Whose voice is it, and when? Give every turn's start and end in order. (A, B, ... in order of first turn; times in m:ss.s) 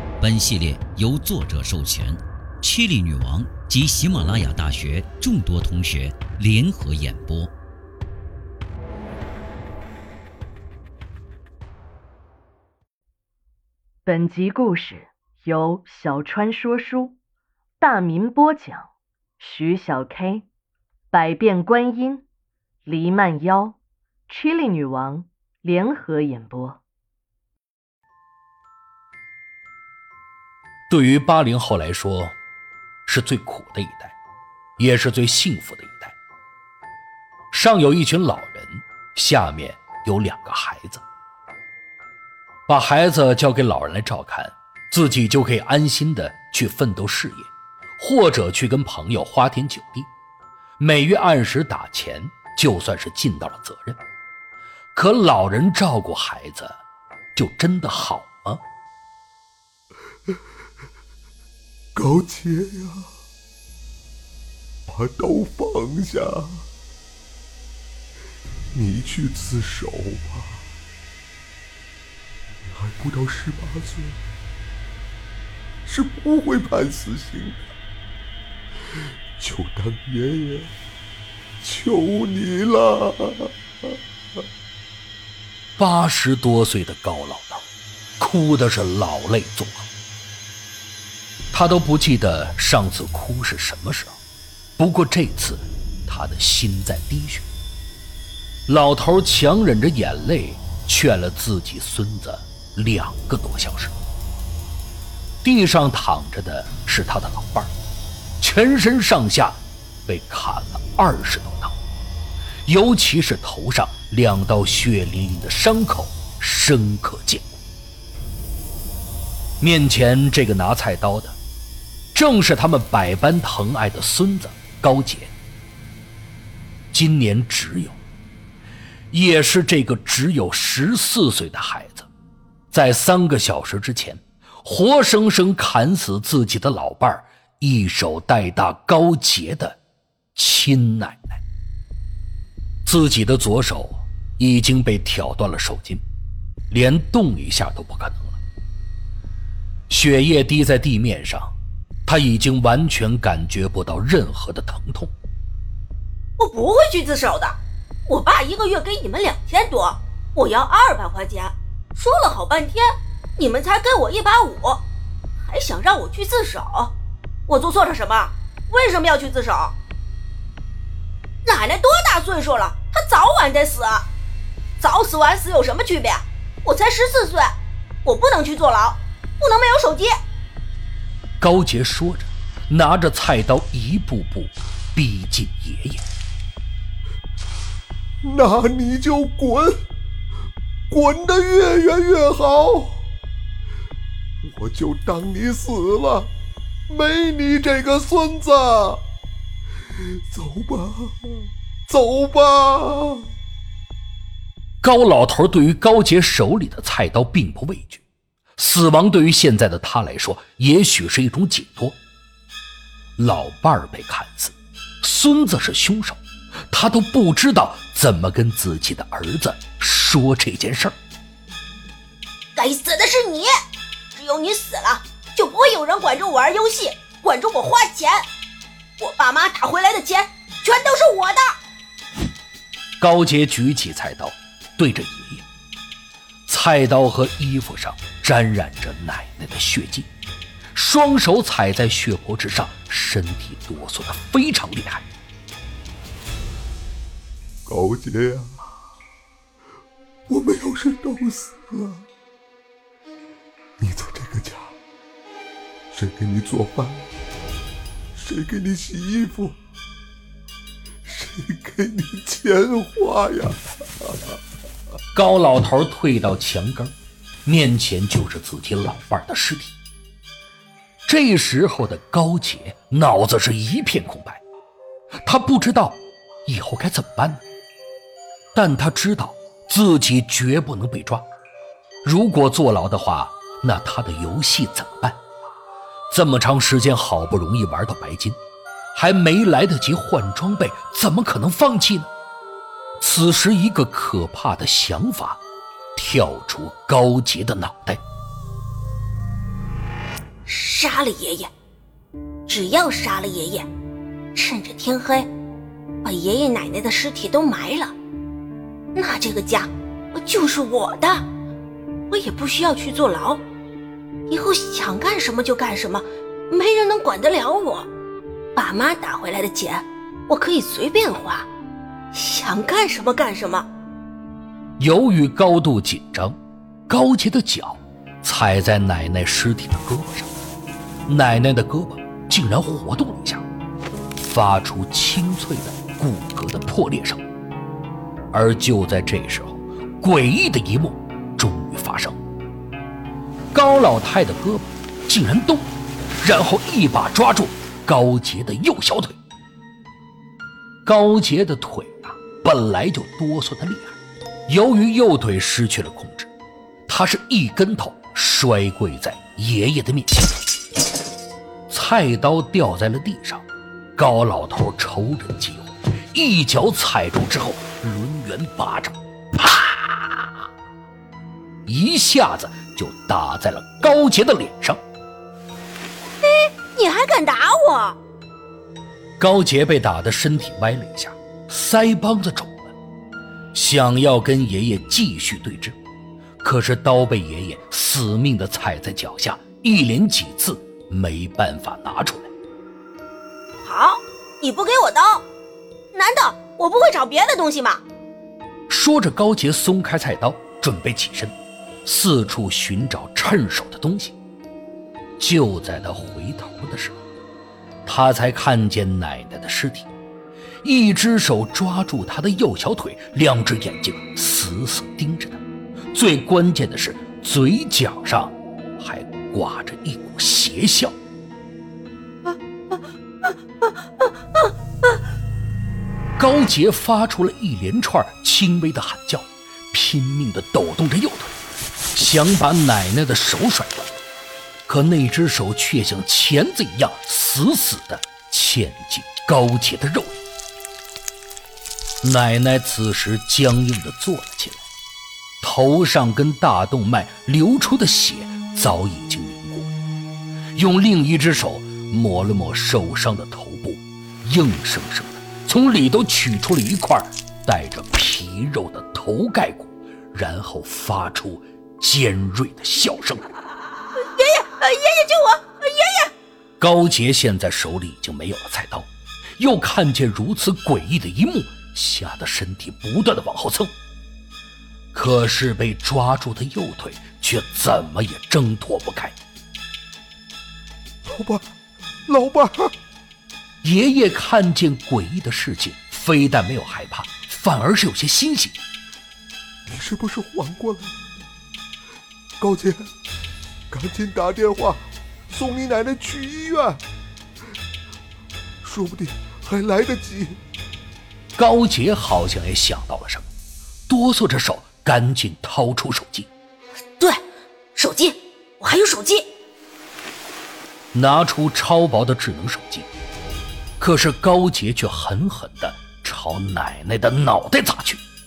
0:00.2-0:07.5 A
0:14.0-0:17.1 B
0:17.8-0:18.9 B
0:19.4-0:20.4 B
0:21.1-0:22.2 B
0:22.8-0:23.8 B
0:24.3-0:26.8 B
0:30.9-0:32.3 C
0:33.1-0:34.1 C
0:34.8-0:36.2 C
0:37.5-0:41.0 C
0:42.7-0:50.1 C
0:50.8-0:54.0 C
0:54.9-0:56.8 C
0:57.3-0:58.6 C
1:01.9-1:03.1 D
1:04.9-1:06.6 D
1:08.7-1:10.6 D
1:12.7-1:14.2 D
1:15.8-1:17.6 D
1:19.4-1:20.7 D
1:21.6-1:23.5 D
1:25.8-1:27.6 C
1:28.2-1:29.9 C
1:31.5-1:34.2 C
1:34.8-1:37.5 C
1:38.7-1:43.9 C
1:45.4-1:47.7 C
1:48.4-1:51.8 C
1:52.6-1:57.5 C
1:59.6-2:01.4 C
2:02.1-2:05.3 C
2:06.9-2:08.0 C
2:09.1-2:12.1 C
2:12.7-2:19.8 C
2:20.3-2:21.4 C
2:22.8-2:26.0 C
2:26.7-2:28.4 C
2:29.9-2:31.5 C
2:32.0-2:35.1 C
2:36.4-2:37.6 E
2:38.1-2:42.8 E
2:43.4-2:44.8 E
2:45.5-2:46.9 E
2:47.5-2:49.7 E
2:51.4-2:54.1 E
2:54.8-2:57.5 E
2:58.0-3:00.1 E
3:01.4-3:06.0 C
3:08.2-3:09.7 D
3:10.9-3:13.0 D
3:14.4-3:16.3 D
3:16.9-3:19.0 D
3:20.3-3:23.3 D
3:24.8-3:28.0 C
3:28.6-3:32.0 C
3:33.2-3:36.2 C
3:36.7-3:40.9 C
3:42.6-3:43.5 E
3:44.2-3:48.2 E
3:49.0-3:51.4 E
3:53.0-3:55.4 C
3:56.5-4:00.1 C
4:00.7-4:05.0 C
4:07.6-4:08.6 D
4:10.3-4:12.0 D
4:13.8-4:14.7 D
4:15.9-4:17.0 D
4:18.1-4:19.6 D
4:21.0-4:24.1 D
4:25.1-4:29.8 C
4:31.1-4:34.4 C
4:35.2-4:37.4 C
4:38.5-4:41.2 C
4:42.0-4:45.2 C
4:46.1-4:48.4 C
4:48.9-4:52.1 C
4:53.0-4:55.4 C
4:56.0-4:58.0 C
5:00.4-5:01.5 E
5:02.5-5:03.7 E
5:04.3-5:05.3 E
5:06.0-5:07.9 E
5:08.9-5:11.2 E
5:12.1-5:13.4 E
5:14.3-5:17.9 E
5:18.6-5:21.5 E
5:22.1-5:23.7 E
5:24.8-5:26.3 C
5:26.9-5:30.3 C
5:31.1-5:33.4 C
5:34.2-5:37.2 C
5:38.3-5:42.2 C
5:43.5-5:45.7 C
5:46.2-5:49.2 C
5:50.8-5:54.0 C
5:54.5-5:56.3 C
5:56.9-6:00.3 C
6:01.7-6:03.4 C
6:04.0-6:10.1 C
6:11.6-6:14.8 C
6:16.2-6:18.0 E
6:19.2-6:22.7 C
6:23.5-6:25.8 C
6:26.4-6:32.3 C
6:33.6-6:35.2 E
6:35.9-6:37.8 E
6:38.7-6:41.3 C
6:41.8-6:44.1 C
6:45.2-6:47.0 C
6:47.8-6:49.9 C
6:50.6-6:55.4 C
6:55.9-7:00.9 C
7:06.2-7:11.3 C
7:11.9-7:13.9 C
7:14.7-7:20.2 C
7:22.0-7:24.6 C
7:25.4-7:29.7 C
7:30.5-7:43.2 C
7:44.0-7:46.1 E
7:46.6-7:53.7 C
7:54.9-7:59.1 C
8:01.0-8:01.5 D
8:02.1-8:02.7 D
8:03.6-8:08.6 C
8:09.7-8:11.0 D
8:12.4-8:12.9 D
8:13.7-8:16.8 D
8:18.6-8:20.4 D
8:21.4-8:23.3 C
8:23.9-8:26.3 C
8:27.8-8:29.2 E
8:30.9-8:32.9 C
8:33.8-8:38.0 C